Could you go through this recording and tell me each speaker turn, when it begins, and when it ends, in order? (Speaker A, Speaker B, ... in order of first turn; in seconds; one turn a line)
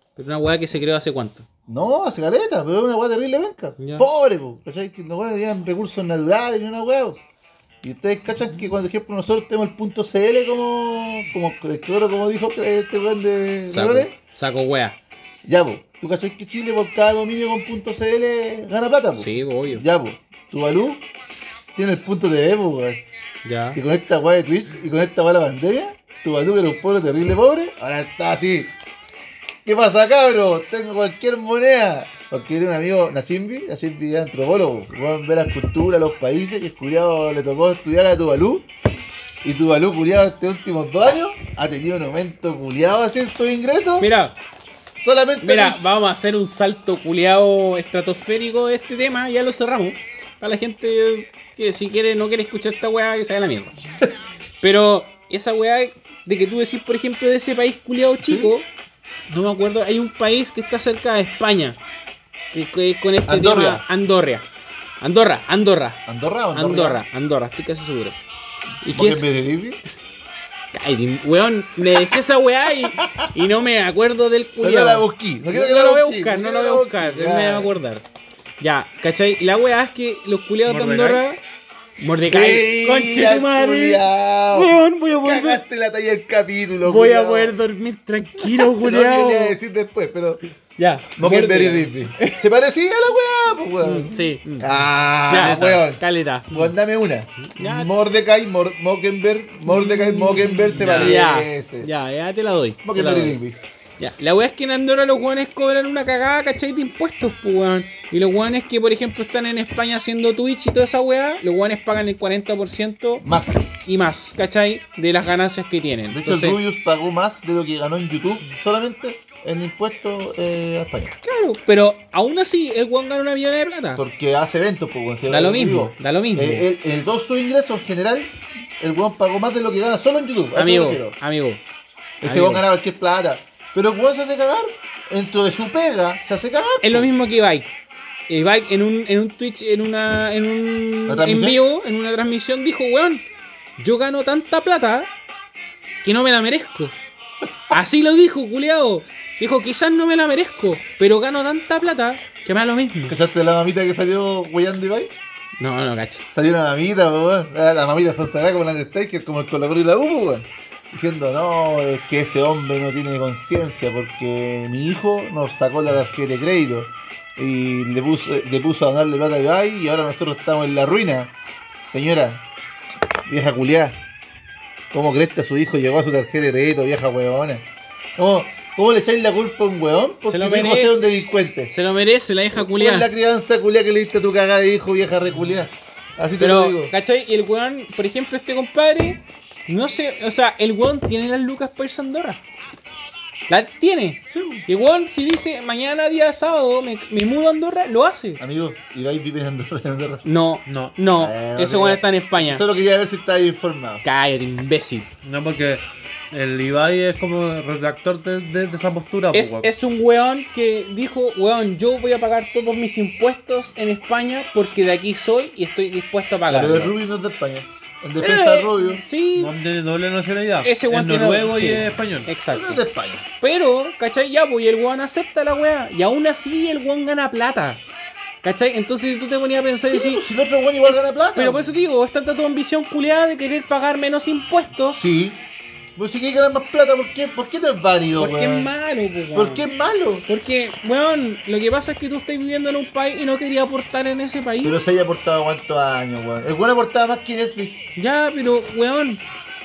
Speaker A: 0.2-1.5
Speaker B: 1.7-7.2
Speaker A: 3.8-4.1
Speaker B: 7.8-14.1
Speaker A: 13.7-15.0
Speaker B: 15.4-21.1
Speaker A: 19.2-19.8
Speaker B: 21.8-23.0
Speaker A: 23.4-23.8
Speaker B: 23.7-28.7
Speaker B: 29.6-38.7
Speaker B: 39.4-44.1
Speaker A: 44.0-44.4
Speaker B: 45.0-45.8
Speaker A: 45.4-53.8
Speaker A: 54.6-58.7
Speaker B: 58.2-58.5
Speaker A: 59.3-61.8
Speaker A: 62.5-64.5
Speaker B: 63.3-63.8
Speaker A: 65.0-66.0
Speaker B: 66.1-67.0
Speaker A: 66.5-68.2
Speaker A: 68.8-69.3
Speaker B: 68.8-69.8
Speaker A: 70.7-78.0
Speaker B: 72.8-73.5
Speaker B: 74.6-77.8
Speaker A: 78.6-81.4
Speaker C: 80.7-81.2
Speaker A: 82.0-85.6
Speaker B: 82.2-87.6
Speaker A: 86.8-89.6
Speaker B: 88.4-90.4
Speaker A: 90.8-92.4
Speaker B: 91.2-101.9
Speaker A: 93.8-94.7
Speaker A: 95.3-96.7
Speaker C: 95.3-95.8
Speaker A: 97.5-97.9
Speaker A: 99.7-103.4
Speaker C: 100.7-101.2
Speaker B: 102.8-103.6
Speaker A: 104.0-113.2
Speaker B: 113.2-113.8
Speaker A: 113.9-116.6
Speaker B: 116.1-121.2
Speaker A: 121.2-124.0
Speaker B: 124.0-131.2
Speaker A: 125.3-126.7
Speaker A: 130.6-131.6
Speaker A: 132.2-132.6
Speaker B: 132.2-137.1
Speaker A: 136.8-137.7
Speaker A: 138.3-143.2
Speaker B: 141.1-141.6
Speaker A: 143.8-145.1
Speaker A: 146.0-147.0
Speaker A: 147.7-153.2
Speaker B: 153.1-155.1
Speaker A: 155.6-156.2
Speaker B: 156.3-171.3
Speaker B: 171.8-172.4
Speaker B: 173.3-174.0
Speaker B: 174.9-177.7
Speaker B: 178.2-181.7
Speaker A: 180.3-181.0
Speaker A: 181.7-183.1
Speaker B: 182.6-186.9
Speaker A: 186.4-192.4
Speaker A: 193.5-198.4
Speaker B: 194.3-194.7
Speaker B: 198.4-200.2
Speaker A: 200.2-202.6
Speaker C: 200.7-200.9
Speaker B: 201.2-204.0
Speaker A: 204.0-205.1
Speaker C: 205.2-209.7
Speaker A: 209.3-216.9
Speaker B: 216.5-219.0
Speaker A: 218.2-219.5
Speaker C: 219.4-222.3
Speaker A: 220.6-222.8
Speaker B: 222.5-223.2
Speaker A: 223.4-227.8
Speaker A: 228.4-230.2
Speaker B: 229.9-231.7
Speaker A: 230.9-235.0
Speaker B: 234.9-235.4
Speaker B: 236.0-238.7
Speaker A: 238.2-239.7
Speaker B: 239.3-240.2
Speaker A: 240.3-244.8
Speaker B: 244.6-247.8
Speaker A: 248.0-249.2